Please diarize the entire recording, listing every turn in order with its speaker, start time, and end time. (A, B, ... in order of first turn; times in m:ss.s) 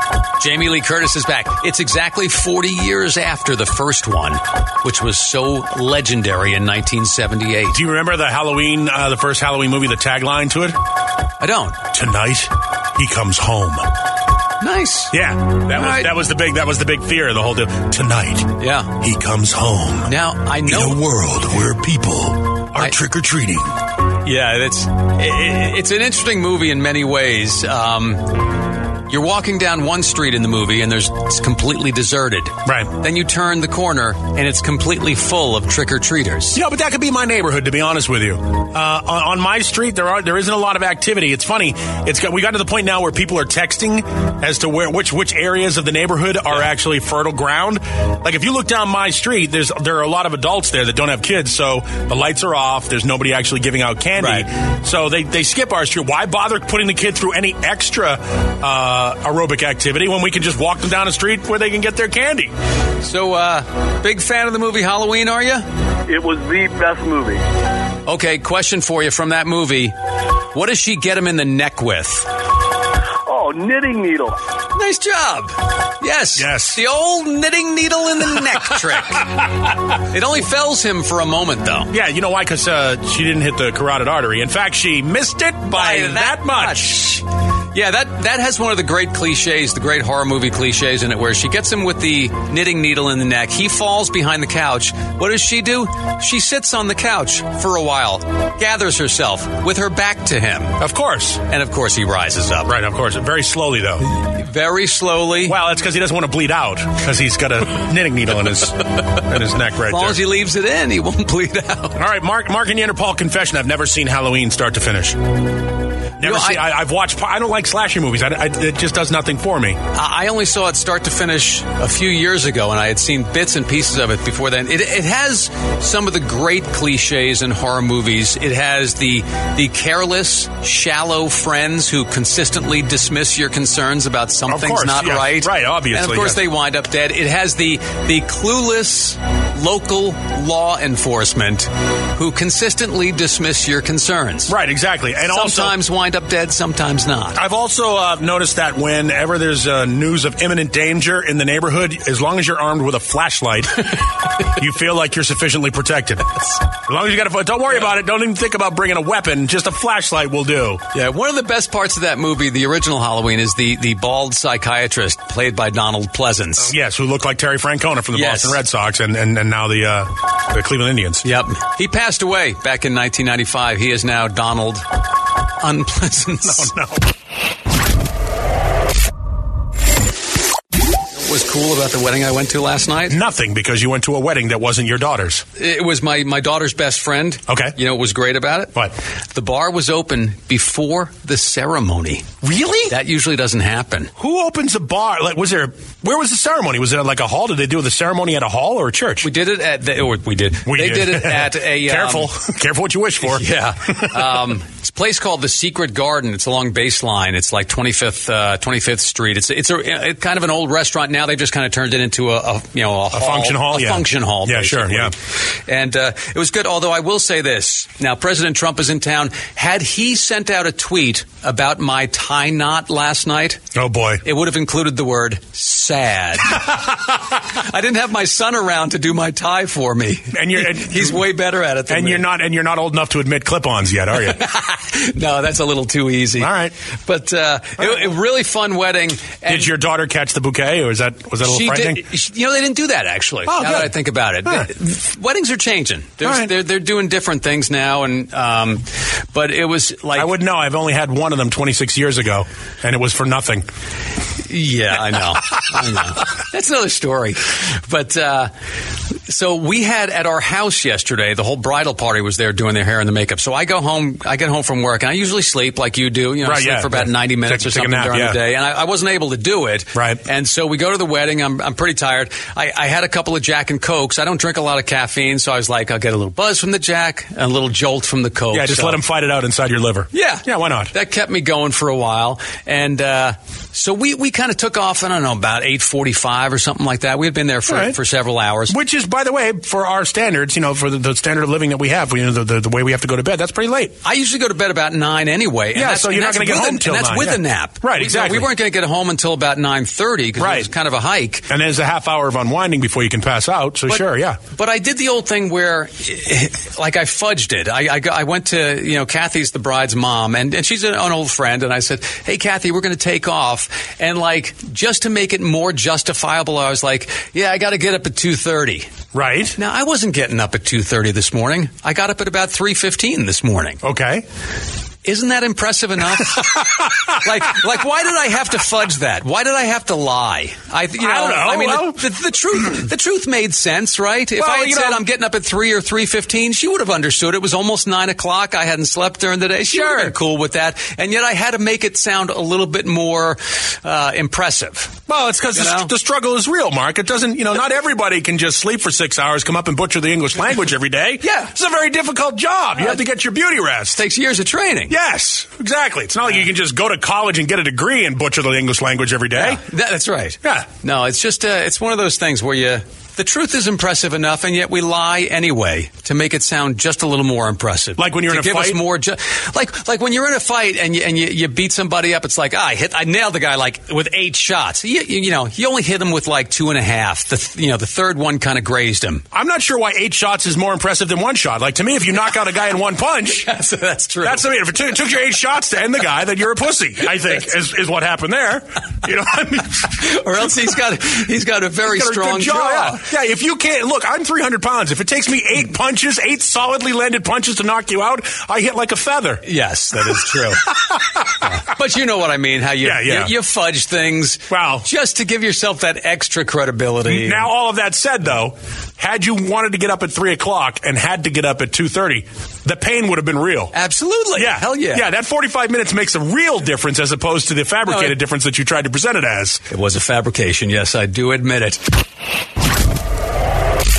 0:00.4-0:07.8 A
0:07.7-0:10.8 B
0:11.4-0:11.8 A
0:11.9-0:13.9 B
0:14.6-0:15.2 A
0:15.1-0:23.7 B
0:15.7-0:16.1 A
0:18.6-0:18.9 A
0:20.0-0:21.0 A
0:24.2-0:28.5 A
0:29.1-0:36.6 A
0:32.6-0:32.9 B
0:36.5-1:02.5 B
0:54.2-0:54.5 A
1:03.0-1:05.7 A
1:06.1-1:07.4 C
1:08.1-1:09.9 A
1:10.5-1:12.3 A
1:13.3-1:14.4 C
1:14.7-1:19.3 A
1:16.4-1:16.8 B
1:19.9-1:21.9 A
1:21.9-1:27.2 B
1:25.7-1:40.8 A
1:40.8-1:41.4 B
1:41.5-1:42.8 A
1:42.7-1:44.0 B
1:44.0-1:45.6 A
1:45.5-1:50.2 B
1:49.9-1:52.0 A
1:52.0-1:55.2 B
1:56.2-1:59.8 B
1:56.2-1:56.6 A
1:59.9-2:24.6 A
2:14.5-2:16.4 B
2:24.5-2:25.8 B
2:25.2-2:27.4 A
2:27.3-2:40.8 B
2:40.9-2:46.8 A
2:46.6-2:51.2 B
2:48.1-2:48.6 A
2:51.2-2:54.8 A
2:55.6-2:56.7 A
2:56.4-2:57.0 B
3:01.2-3:03.2 A
3:03.1-3:05.4 B
3:05.6-3:08.7 A
3:07.5-3:07.8 B
3:09.3-3:12.2 A
3:12.4-3:12.9 B
3:12.9-3:14.1 A
3:14.2-3:19.3 B
3:19.2-3:22.3 A
3:20.6-3:24.5 B
3:23.2-3:35.1 A
3:33.1-3:35.1 B
3:35.7-3:43.6 A
3:43.7-3:44.2 B
3:44.2-3:52.3 A
3:50.3-3:51.3 B
3:51.9-3:54.4 B
3:54.1-3:56.5 A
3:56.4-3:56.7 B
3:57.1-3:59.7 A
3:59.5-4:02.0 B
4:01.4-4:10.3 A
4:03.5-4:03.9 B
4:06.2-4:06.5 B
4:10.2-4:13.7 B
4:14.5-4:18.5 A
4:19.3-4:39.0 A
4:26.4-4:28.4 B
4:29.9-4:30.2 B
4:38.5-4:40.9 B
4:40.1-4:48.8 A
4:47.7-4:48.0 B
4:48.7-4:54.0 B
4:54.0-5:01.5 A
4:55.7-4:58.5 B
5:00.4-5:00.7 B
5:01.5-5:04.4 B
5:03.9-5:18.9 A
5:19.1-5:19.6 B
5:19.6-5:23.8 A
5:23.8-5:24.2 B
5:25.0-5:45.0 A
5:31.0-5:32.0 B
5:34.4-5:35.0 B
5:39.7-5:40.2 B
5:45.1-5:54.0 B
5:45.5-5:45.9 A
5:51.2-5:51.5 A
5:52.8-5:53.0 A
5:53.9-5:54.9 A
5:54.9-5:59.6 B
5:59.3-6:19.2 A
6:08.0-6:08.8 B
6:19.3-6:23.5 B
6:23.3-6:25.2 A
6:24.2-6:29.8 B
6:29.8-6:33.0 A
6:31.9-6:39.4 B
6:39.4-6:40.6 A
6:40.6-6:41.4 B
6:41.4-6:47.5 A
6:42.8-6:43.3 B
6:44.5-6:44.9 B
6:47.1-6:53.7 B
6:53.7-6:55.0 A
6:54.4-6:59.6 B
6:57.8-6:58.2 A
6:59.7-7:01.8 A